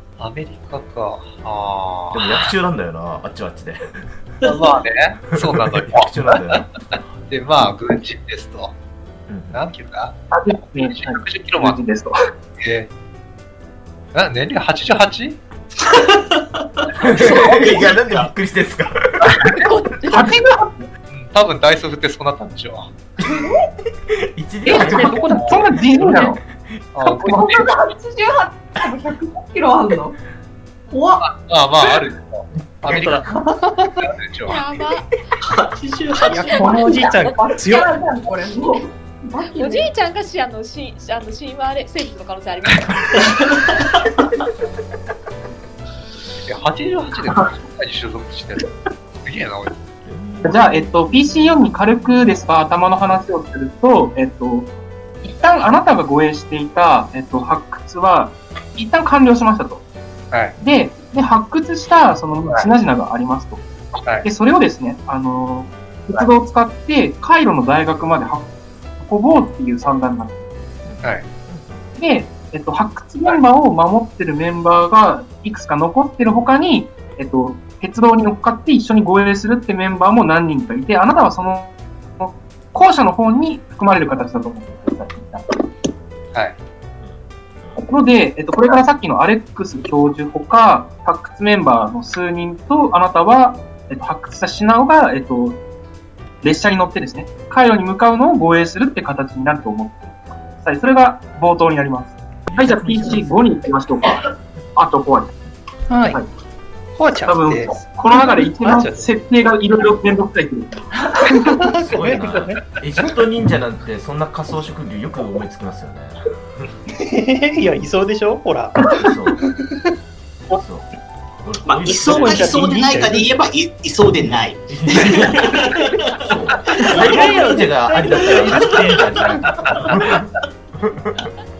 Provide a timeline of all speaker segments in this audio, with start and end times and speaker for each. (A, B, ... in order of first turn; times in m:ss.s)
0:00.2-0:02.5 A
0:02.1-0:04.4 B
0:04.4-0:08.7 A
0:05.4-0:06.7 B
0:09.3-0:09.6 B
0:09.5-0:10.1 A
0:10.3-0:12.2 C
0:10.7-0:11.8 A
0:12.6-0:12.9 A
0:14.1-0:15.4 A
0:15.8-0:18.3 D
0:17.0-0:19.4 B
0:17.2-0:17.8 A
0:19.6-0:20.3 E
0:20.1-0:20.9 C
0:21.1-0:22.9 A
0:23.2-0:23.6 B
0:24.3-0:26.9 B
0:24.6-0:26.4 F
0:24.7-0:26.3 C
0:24.7-0:25.7 A
0:26.9-0:27.7 A
0:27.3-0:30.2 G
0:30.9-0:31.2 G
0:31.2-0:33.2 A
0:32.8-0:34.0 F
0:33.3-0:33.6 G
0:34.1-0:34.6 A
0:34.4-0:35.2 E
0:35.4-0:36.3 D
0:36.2-0:37.1 E
0:36.3-0:37.9 F
0:36.5-0:39.9 G
0:39.5-0:43.1 E
0:43.2-0:44.0 D
0:46.5-0:48.7 A
0:49.2-0:49.8 A
0:50.0-0:52.4 B
0:50.4-0:54.7 C
0:55.2-0:59.8 C
1:00.6-1:03.6 C
1:04.2-1:08.5 C
1:09.0-1:10.3 C
1:10.8-1:11.8 B
1:12.0-1:25.4 C
1:27.0-1:27.8 B
1:27.8-1:35.6 C
1:36.4-1:44.2 C
1:42.4-1:43.3 B
1:44.8-1:45.3 C
1:45.9-1:46.2 F
1:46.9-1:49.1 F
1:47.2-1:50.9 C
1:51.2-1:52.6 F
1:51.7-1:56.7 B
1:56.9-1:58.8 F
1:59.0-1:59.4 B
1:59.4-1:59.9 F
2:00.6-2:00.9 B
2:01.4-2:03.2 B
2:01.6-2:06.3 D
2:02.0-2:03.3 F
2:04.2-2:10.2 B
2:07.0-2:08.6 F
2:09.5-2:10.2 A
2:10.8-2:11.3 B